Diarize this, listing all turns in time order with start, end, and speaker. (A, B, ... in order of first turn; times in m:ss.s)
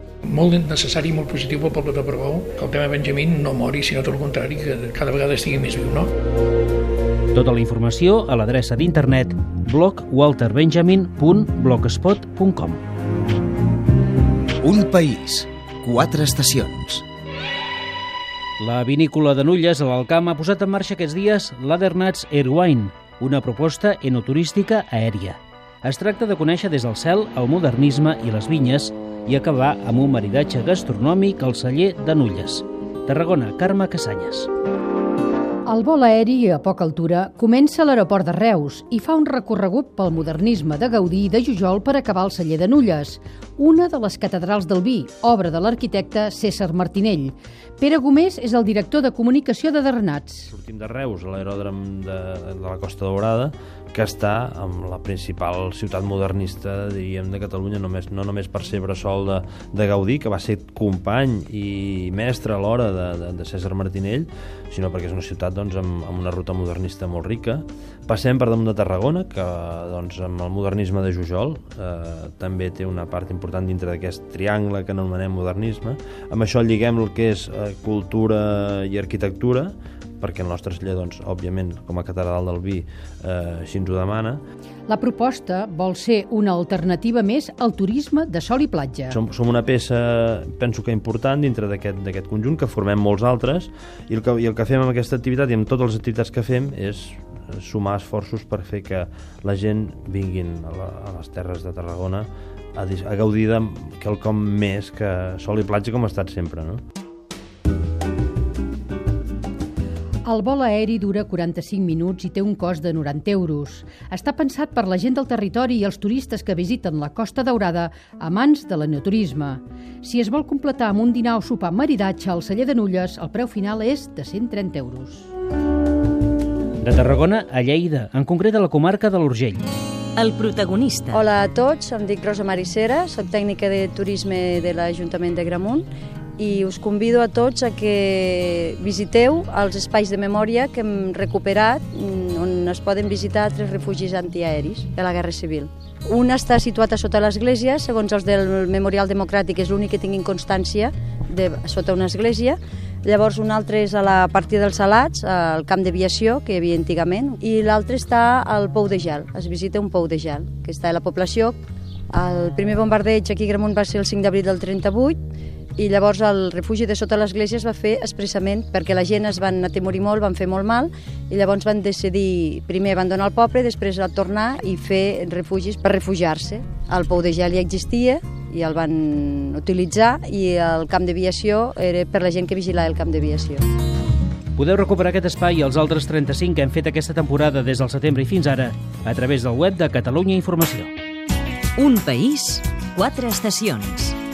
0:00.3-0:06.1 A
0:07.3-0:12.8 B
0:14.6-0:17.0 C
0:18.6-0:34.5 B
0:35.6-0:50.5 D
0:50.5-1:24.4 E
1:24.9-1:29.2 D
1:29.1-1:46.8 E
1:50.2-2:05.3 D
2:06.8-2:09.7 B
2:10.2-2:11.2 F
2:11.1-2:15.8 G
2:16.4-2:41.6 G
2:42.1-2:45.2 G
2:45.8-3:03.6 G
3:04.6-3:10.9 B
3:11.8-3:14.2 F